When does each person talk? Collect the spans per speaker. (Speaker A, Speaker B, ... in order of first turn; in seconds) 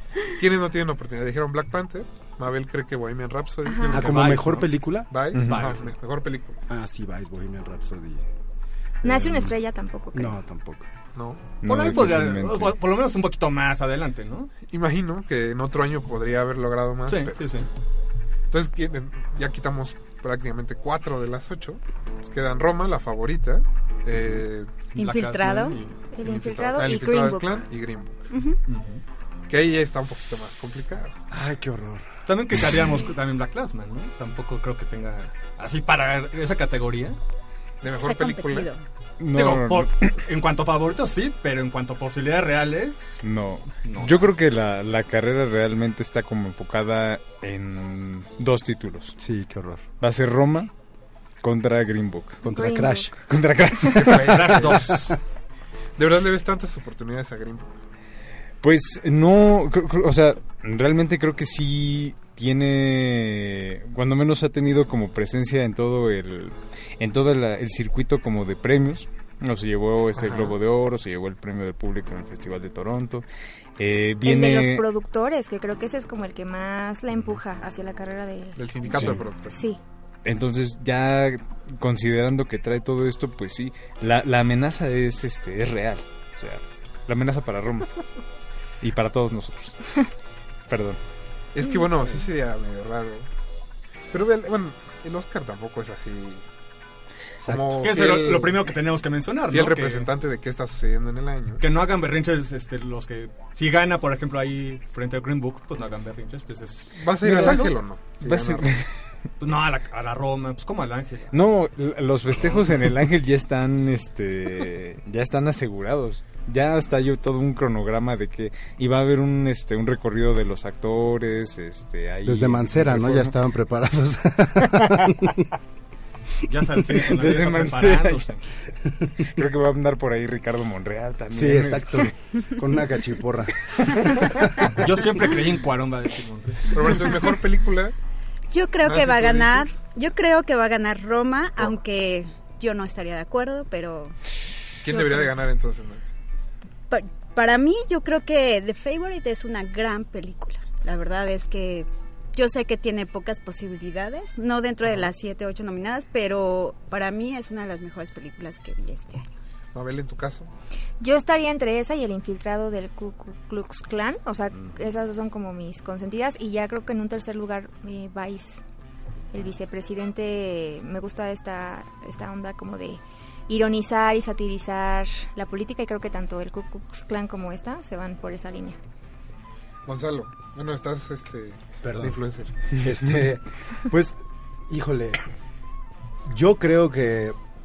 Speaker A: 0.4-6.6, 11.2-11.6, 14.7-17.6, 18.5-24.9, 26.2-28.2, 29.5-31.1, 37.8-38.7, 54.0-55.0, 56.0-57.7, 70.2-70.6, 78.6-79.6, 91.5-93.3, 94.1-96.4, 97.4-98.6, 99.5-101.6, 107.0-108.7, 136.7-137.9, 138.8-139.7, 144.8-146.1, 159.7-160.5, 179.9-182.5
Speaker B: 3.7-4.2, 9.0-10.4, 26.1-27.7, 52.5-53.1, 74.2-79.8, 161.0-168.6, 169.3-178.8
Speaker C: 3.9-5.1, 6.7-8.2, 9.0-9.5, 10.1-10.9, 31.3-32.1, 49.2-49.9, 52.4-53.2, 97.4-97.9, 122.2-125.5, 131.3-134.5, 181.8-182.2, 182.8-184.2, 184.7-185.2, 186.3-187.4
Speaker D: 4.0-4.7, 5.4-5.9, 11.6-14.5, 17.1-17.7, 24.9-26.0, 28.7-29.0, 32.3-37.2, 39.3-43.2, 43.8-44.3, 54.1-55.2, 97.8-100.1, 101.6-107.8, 109.4-111.3, 126.5-128.4, 134.8-136.8
Speaker E: 5.3-5.7, 11.6-12.8, 39.2-40.1, 43.2-49.2, 50.0-50.7, 51.4-52.4, 53.3-54.6, 58.6-73.2, 73.8-74.9, 78.9-79.2, 80.2-87.9, 88.8-89.8, 90.7-91.0, 107.2-108.9, 111.3-123.3, 124.8-125.1, 127.1-128.3, 129.2-132.1
Speaker F: 24.9-25.8, 28.3-28.6, 37.8-38.8, 138.5-144.2, 144.9-145.4, 146.9-159.3